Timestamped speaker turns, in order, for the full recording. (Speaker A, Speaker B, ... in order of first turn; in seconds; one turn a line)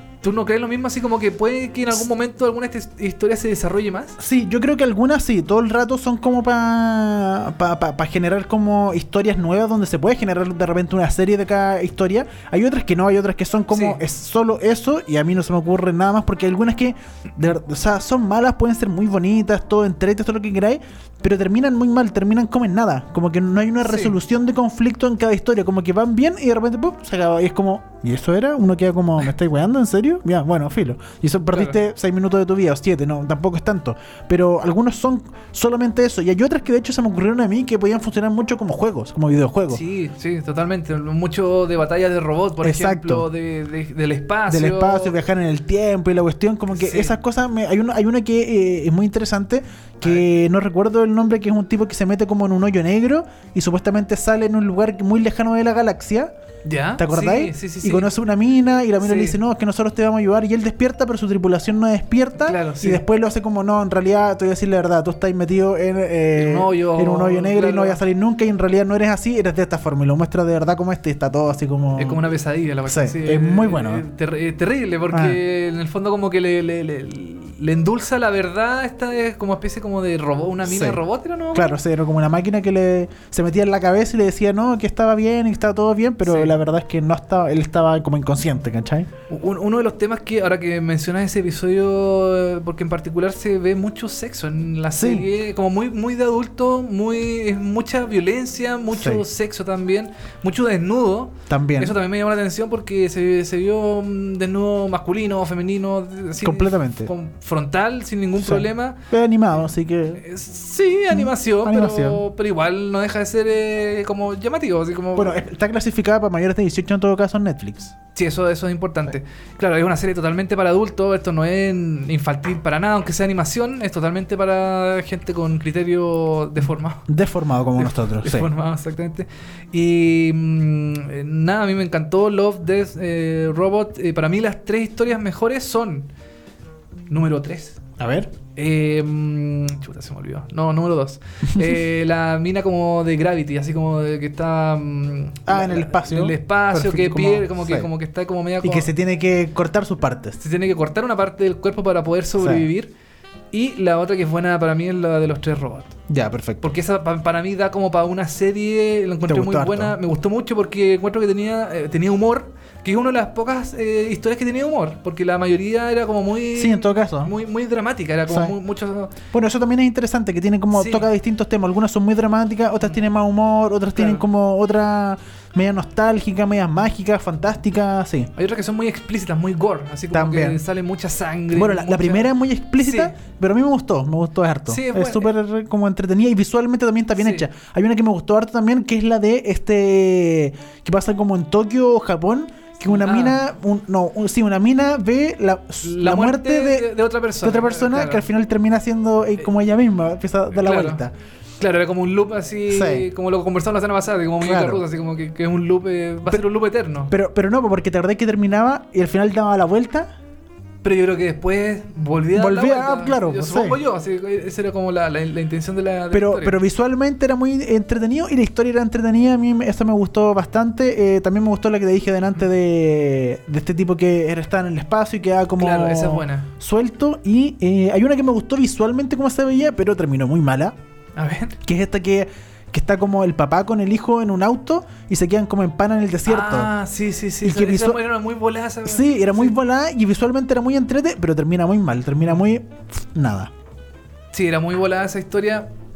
Speaker A: 0.2-4.2
Speaker B: 4.2-39.8
Speaker A: 13.7-14.0
Speaker A: 23.8-24.2
Speaker A: 31.5-31.8
Speaker A: 39.7-45.2
Speaker B: 42.6-43.3
Speaker B: 44.5-56.3
Speaker A: 46.7-47.2
Speaker A: 56.6-58.1
Speaker B: 57.0-72.2
Speaker A: 59.0-59.4
Speaker A: 62.4-63.0
Speaker A: 66.4-68.0
Speaker A: 72.0-81.8
Speaker B: 72.9-74.0
Speaker B: 75.1-75.4
Speaker B: 80.7-89.1
Speaker A: 86.2-86.5
Speaker A: 89.3-115.4
Speaker B: 94.9-95.3
Speaker B: 98.9-99.2
Speaker B: 101.5-102.0
Speaker B: 106.4-107.1
Speaker B: 108.4-110.2
Speaker B: 111.1-112.2
Speaker B: 115.1-117.9
Speaker A: 118.1-127.0
Speaker B: 127.1-128.5
Speaker A: 127.8-136.1
Speaker A: 137.1-137.8
Speaker B: 138.0-138.3
Speaker A: 138.5-148.9
Speaker B: 141.4-141.8
Speaker B: 145.5-147.9
Speaker B: 148.6-150.4
Speaker A: 150.4-152.9
Speaker B: 152.4-152.7
Speaker A: 153.5-155.9
Speaker B: 156.1-156.8
Speaker A: 156.6-169.2
Speaker B: 159.3-160.0
Speaker B: 166.5-167.3
Speaker B: 168.3-168.6
Speaker B: 169.3-178.3
Speaker A: 170.7-171.1
Speaker A: 173.9-174.2
Speaker A: 178.4-183.2
Speaker B: 180.1-180.6
Speaker B: 181.5-201.1
Speaker A: 184.7-185.3
Speaker A: 187.2-187.5
Speaker A: 192.9-193.4
Speaker A: 195.8-198.3
Speaker A: 200.5-201.1
Speaker A: 201.6-207.1
Speaker B: 202.7-203.1
Speaker B: 204.4-204.9
Speaker B: 207.1-210.1
Speaker A: 210.8-216.6
Speaker B: 212.3-213.8
Speaker B: 216.1-230.8
Speaker A: 225.6-226.5
Speaker A: 231.2-231.6
Speaker B: 231.6-236.7
Speaker A: 236.2-239.6
Speaker B: 237.4-238.0
Speaker B: 238.8-243.5
Speaker A: 244.3-245.7